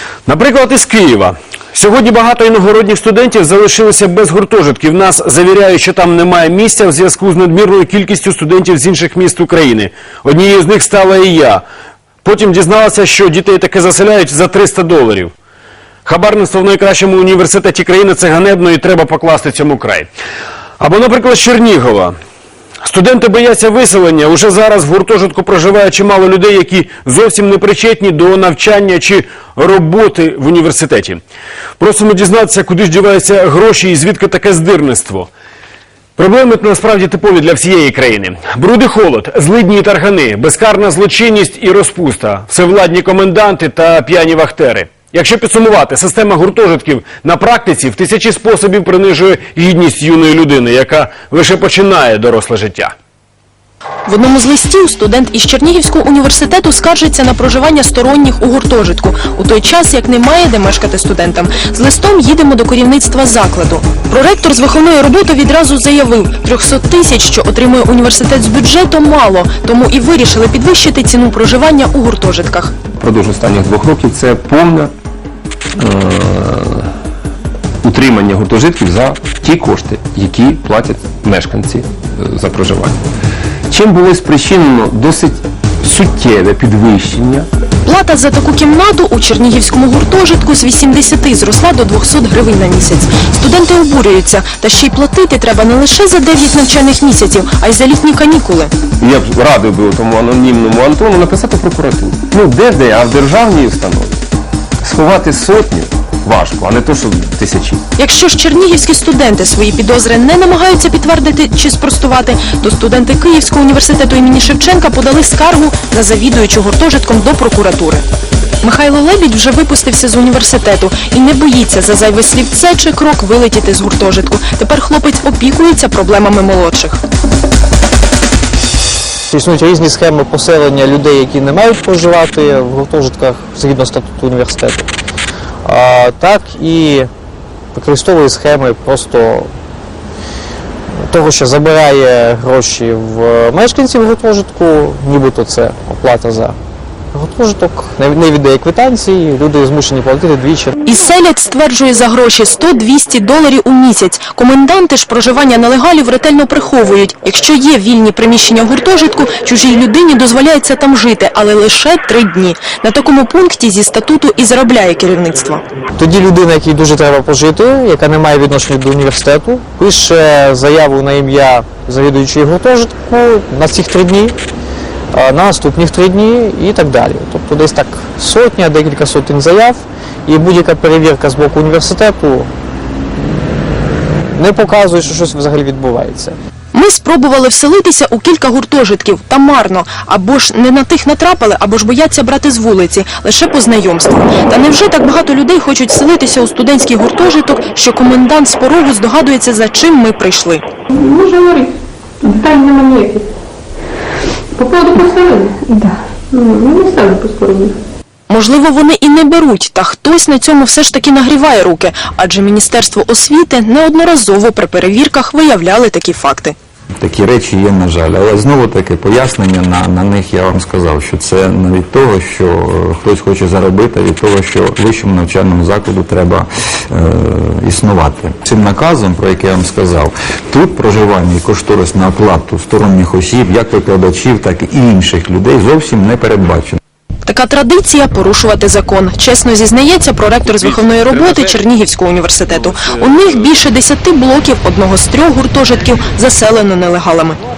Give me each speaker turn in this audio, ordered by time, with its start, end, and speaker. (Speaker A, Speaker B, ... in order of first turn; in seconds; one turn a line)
Speaker A: 0.3-11.6
Speaker A: 12.2-15.3
Speaker A: 16.1-20.1
Speaker A: 20.8-22.2
Speaker A: 22.8-31.2
Speaker A: 31.8-35.3
Speaker A: 36.2-52.9
Speaker B: 54.1-72.7
Speaker C: 73.0-74.9
Speaker C: 75.8-76.9
Speaker C: 77.8-83.0
Speaker C: 83.7-87.5
Speaker B: 87.8-98.7
Speaker C: 99.0-104.2
Speaker C: 104.8-107.8
Speaker B: 108.0-118.0
Speaker B: 118.6-127.0
Speaker D: 129.3-134.9
Speaker D: 135.7-137.1
Speaker D: 137.7-139.5
Speaker D: 141.1-146.6
Speaker D: 147.1-150.7
Speaker B: 150.8-165.6
Speaker D: 166.0-174.3
Speaker D: 175.1-182.5
Speaker D: 184.4-186.4
Speaker B: 186.7-200.6
Speaker E: 200.9-203.3
Speaker E: 204.6-207.8
Speaker B: 208.3-216.6
Speaker F: 217.0-236.8
Speaker B: 237.3-247.4